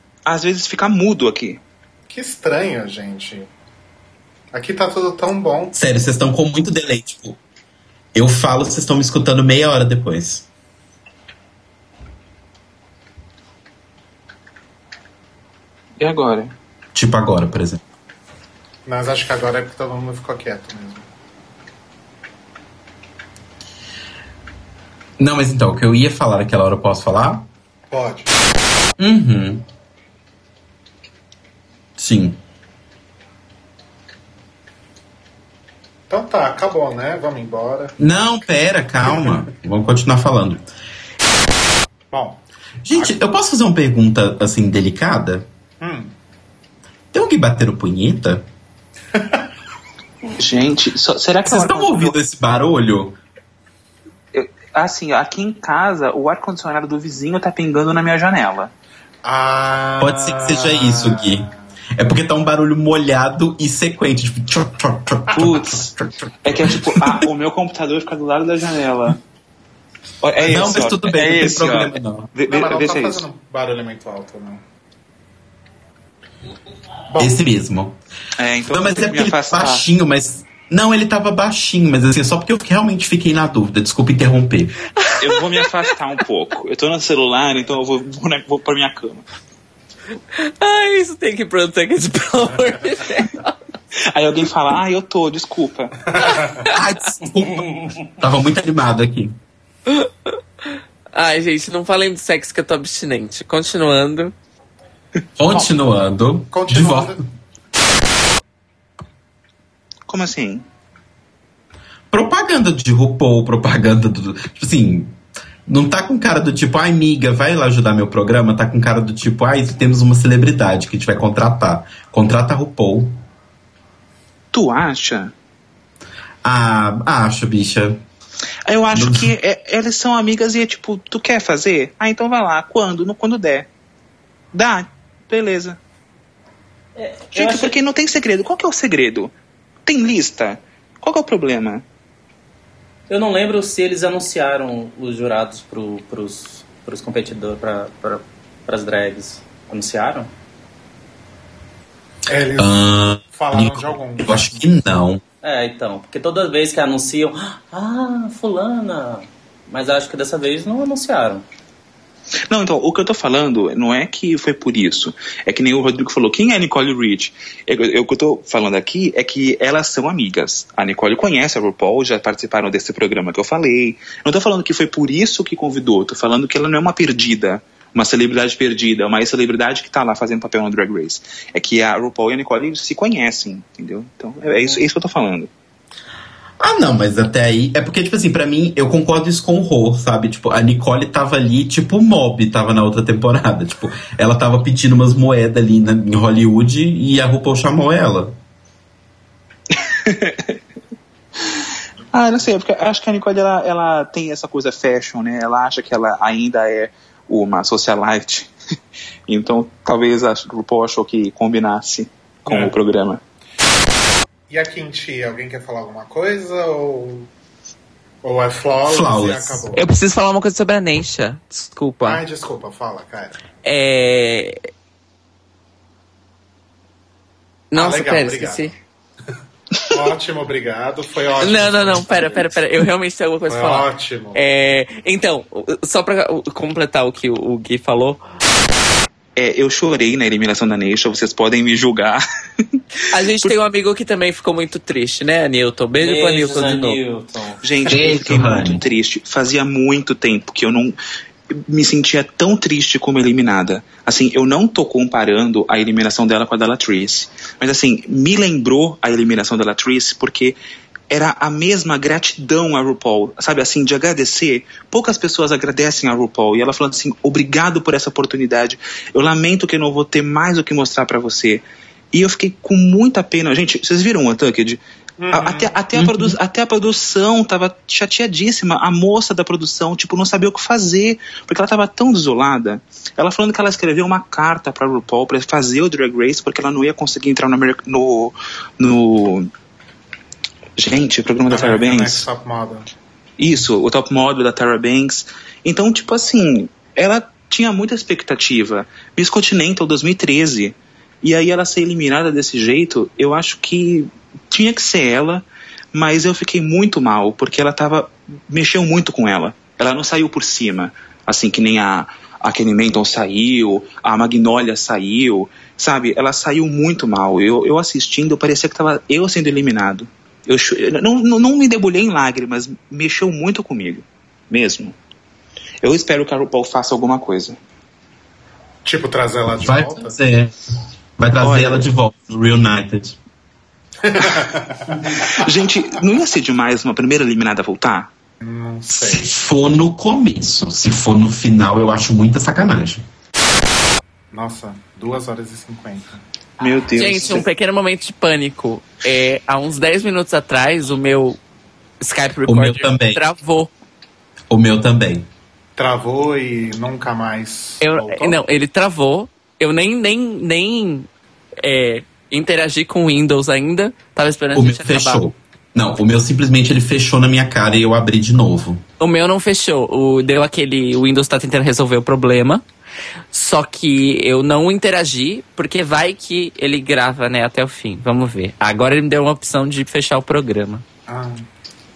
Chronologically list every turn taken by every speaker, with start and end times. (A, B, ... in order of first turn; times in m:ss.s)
0:00.2-0:01.6 A
0:02.1-0:03.5 B
0:04.5-0:05.8 B
0:05.7-0:07.4 C
0:08.1-0:10.5 C
0:16.0-0:16.5 A
0:16.9-0:17.8 C
0:18.8-0:21.0 B
0:25.2-0:27.4 C
0:27.9-0:28.3 B
0:29.0-0:29.6 C
0:32.0-0:32.4 C
0:36.1-0:38.0 B
0:38.0-0:40.6 C
0:42.1-0:43.2 B
0:42.8-0:45.4 C
0:45.8-0:46.1 B
0:47.1-0:48.4 C
0:50.4-0:52.1 A
0:51.4-0:53.2 C
0:54.3-0:58.7 A
0:59.2-1:01.5 B
1:00.0-1:07.2 C
1:05.3-1:05.9 A
1:06.4-1:09.2 A
1:10.2-1:13.2 A
1:10.4-1:12.3 C
1:12.5-1:14.6 B
1:17.1-1:17.4 B
1:17.2-1:18.0 C
1:18.4-1:19.9 A
1:18.7-1:24.8 C
1:25.0-1:25.8 D
1:25.2-1:29.2 A
1:30.4-1:33.5 D
1:34.0-1:36.0 A
1:36.2-1:36.6 B
1:36.4-1:36.7 D
1:36.7-1:39.4 C
1:41.1-1:44.3 D
1:45.4-1:47.2 C
1:46.5-1:47.2 B
1:50.1-1:50.6 A
1:52.1-2:03.2 C
2:04.5-2:05.3 A
2:06.4-2:08.0 C
2:08.6-2:13.7 A
2:08.9-2:09.3 C
2:14.5-2:15.8 A
2:17.0-2:17.8 E
2:17.3-2:19.3 A
2:19.8-2:21.8 A
2:23.1-2:30.3 E
2:32.3-2:34.7 B
2:32.6-2:35.2 C
2:35.4-2:41.4 E
2:42.5-3:05.5 A
3:06.6-3:18.4 C
3:19.7-3:20.6 A
3:22.1-3:28.5 A
3:29.3-3:33.2 A
3:32.4-3:32.8 B
3:34.5-3:37.3 B
3:38.2-3:39.9 B
3:38.8-3:39.6 C
3:39.7-3:42.2 D
3:42.0-3:43.4 B
3:43.6-3:44.6 D
3:47.7-3:48.7 D
3:47.7-3:48.7 B
3:49.9-3:52.6 B
3:51.4-3:58.2 D
3:53.5-3:54.4 B
3:59.4-4:02.2 A
4:03.1-4:07.0 D
4:06.0-4:08.0 E
4:07.6-4:10.9 A
4:07.9-4:08.8 C
4:11.7-4:20.6 A
4:21.1-4:34.8 A
4:35.2-4:35.8 B
4:35.3-4:49.5 A
4:35.9-4:36.3 C
4:50.8-4:52.2 A
4:51.5-4:52.9 B
4:53.4-5:24.9 A
5:25.8-5:27.6 A
5:28.8-5:30.2 B
5:29.6-5:30.6 C
5:31.2-5:33.2 C
5:31.4-5:31.9 A
5:34.0-5:35.2 B
5:35.1-5:38.1 A
5:38.4-5:39.3 B
5:39.0-5:43.0 C
5:44.3-5:46.2 B
5:46.6-5:47.5 A
5:46.9-5:51.4 D
5:52.0-5:53.7 D
5:52.4-5:53.2 C
5:54.5-5:55.2 C
5:55.8-5:58.4 B
5:57.8-6:01.1 D
6:01.6-6:05.2 D
6:04.5-6:08.8 C
6:09.0-6:12.6 D
6:13.3-6:20.8 D
6:21.1-6:21.4 B